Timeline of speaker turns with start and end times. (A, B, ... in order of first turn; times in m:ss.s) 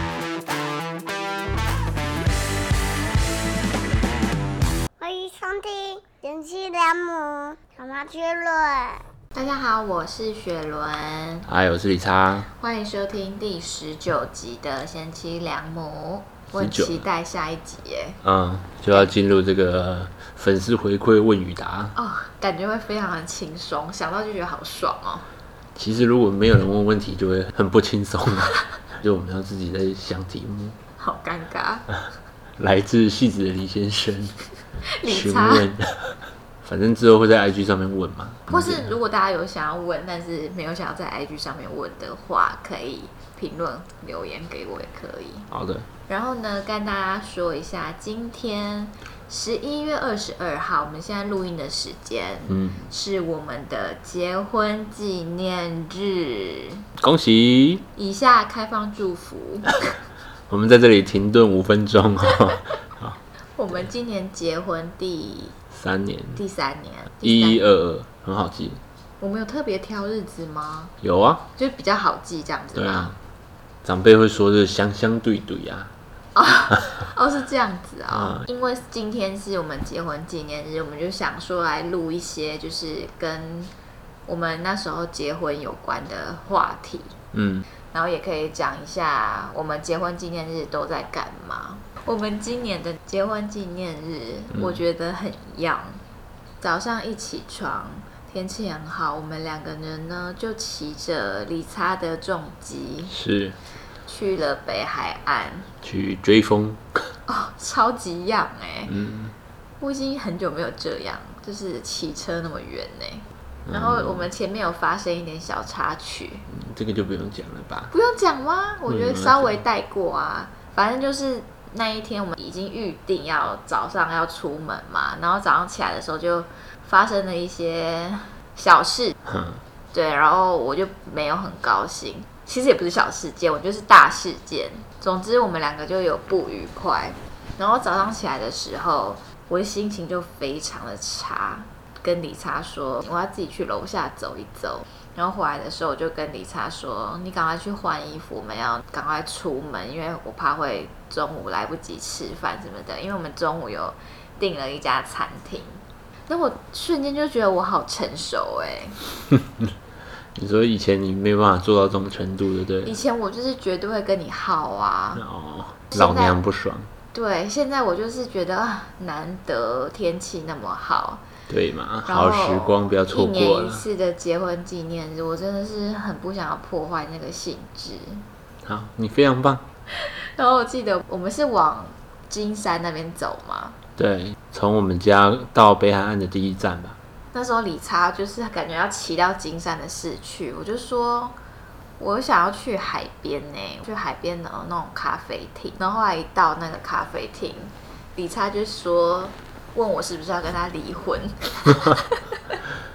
0:05.0-0:09.0 A
0:09.3-0:11.5 B
0:11.5-0:12.5 C
0:12.5-0:18.2 B
0:16.6-0:17.0 C
0:18.2-0:22.0 C
0:22.0-0:25.2 B
0:25.8-0:30.8 C
0:31.0-0:31.9 B
0:32.6-0:34.4 C
0:34.9-0:35.7 B
0:35.0-0:38.9 C
0:38.5-0:45.5 B
0:45.5-0:45.9 C
0:46.1-0:56.8 B
0:52.5-0:52.9 C
0:57.0-0:57.8 C
0:58.0-0:59.8 B
1:00.5-1:03.2 C
1:03.6-1:05.6 B
1:05.7-1:06.4 C
1:06.4-1:07.6 B
1:07.2-1:08.8 C
1:09.2-1:10.9 B
1:11.0-1:11.4 C
1:11.6-1:13.1 B
1:12.8-1:13.2 C
1:13.8-1:15.9 C
1:16.3-1:23.7 B
1:18.1-1:18.4 C
1:24.3-1:27.2 B
1:27.3-1:27.7 C
1:27.9-1:36.0 B
1:34.5-1:34.8 C
1:36.6-1:43.1 B
1:43.1-1:43.6 C
1:44.1-1:45.7 B
1:45.8-1:47.1 C
1:47.3-1:48.9 B
1:48.9-1:49.3 C
1:49.8-1:56.4 B
1:53.7-1:54.3 C
1:56.5-1:57.9 C
1:57.9-2:09.2 B
1:58.9-1:59.6 C
2:09.2-2:09.6 C
2:09.9-2:39.0 B
2:39.3-2:39.7 C
2:40.4-2:42.9 C
2:42.8-2:45.2 B
2:45.2-2:46.9 C
2:45.9-2:46.4 B
2:47.1-2:51.2 B
2:51.5-2:53.8 C
2:52.1-2:58.2 B
2:58.6-2:59.6 C
3:00.0-3:03.8 B
3:04.0-3:07.0 C
3:07.3-3:11.3 B
3:12.0-3:22.2 B